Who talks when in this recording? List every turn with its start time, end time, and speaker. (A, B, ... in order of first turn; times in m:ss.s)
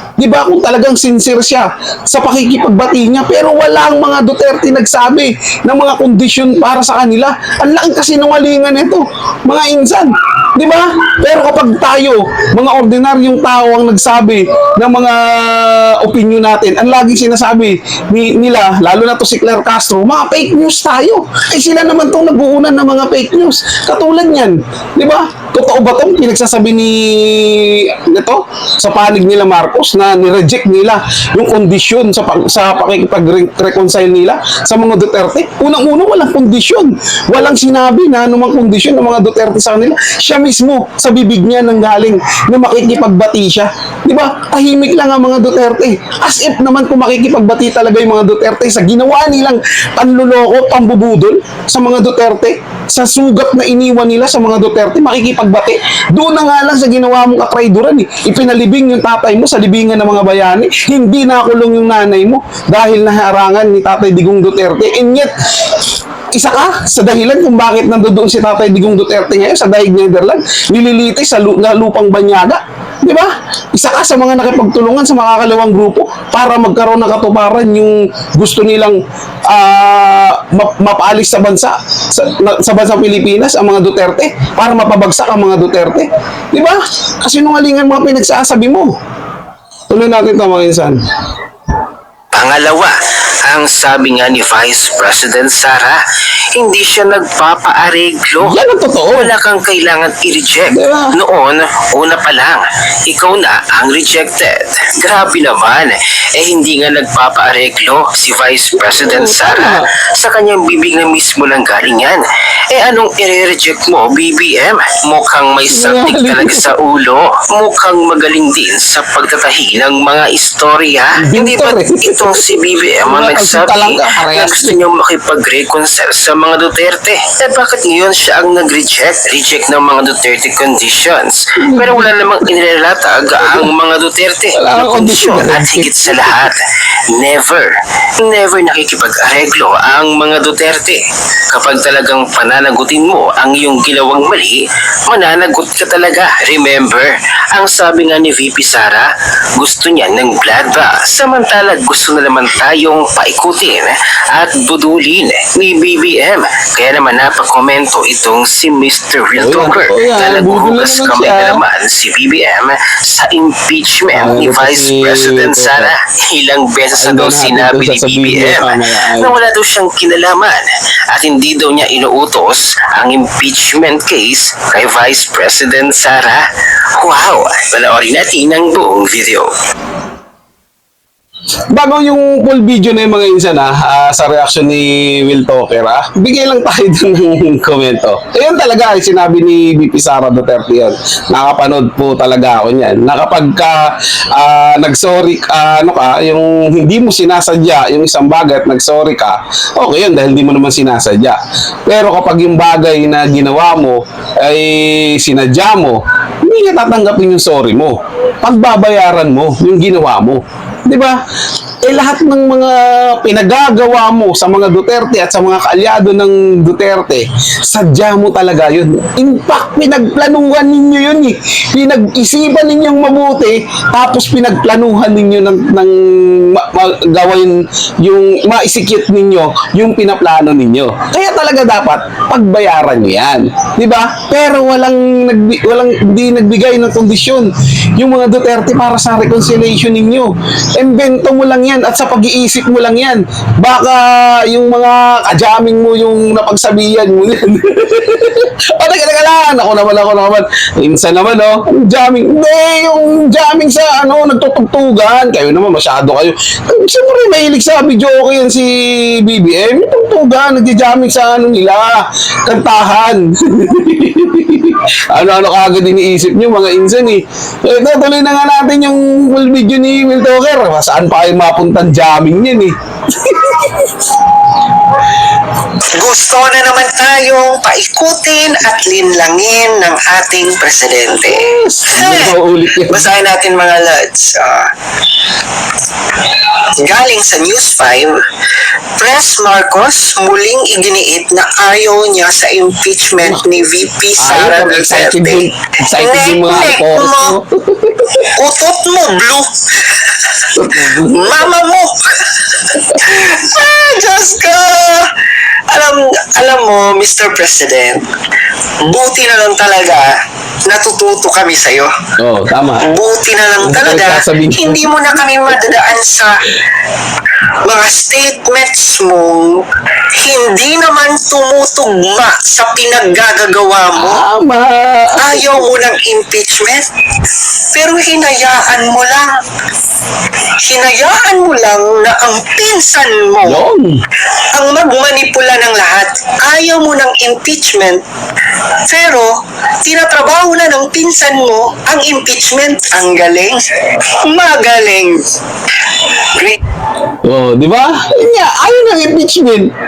0:00.2-1:28.9 A
1:29.9-1:31.0 A
1:32.3-1:36.0 B
1:36.6-1:38.6 B
1:38.4-1:39.3 A
1:39.2-2:56.4 B
1:40.7-1:41.1 A
1:49.0-1:49.9 A
1:55.7-1:56.7 A
2:01.2-2:04.8 A
2:11.6-2:12.5 A
2:13.4-2:13.7 A
2:14.6-2:16.5 A
2:39.4-2:41.6 A
2:44.1-2:45.9 A
2:47.0-2:49.3 A
2:57.0-2:59.5 B
3:01.7-3:31.2 A
3:31.8-4:34.2 A
4:35.9-4:44.7 C
4:41.2-4:43.1 A
4:46.2-4:57.4 C
4:53.2-4:53.4 A
4:54.2-4:58.3 A
4:58.3-5:05.1 C
5:00.5-5:01.5 A
5:05.7-5:08.1 C
5:08.8-5:11.9 C
5:12.2-5:12.9 A
5:12.8-5:16.5 C
5:13.6-5:15.0 A
5:17.6-5:24.2 C
5:23.9-5:25.7 A
5:25.2-5:26.8 C
5:27.7-5:29.4 C
5:30.6-5:33.6 C
5:33.4-5:34.0 A
5:34.5-5:38.0 C
5:38.8-5:39.3 C
5:39.8-5:43.7 C
5:44.2-5:45.2 C
5:46.0-5:46.6 C
5:47.2-5:49.7 A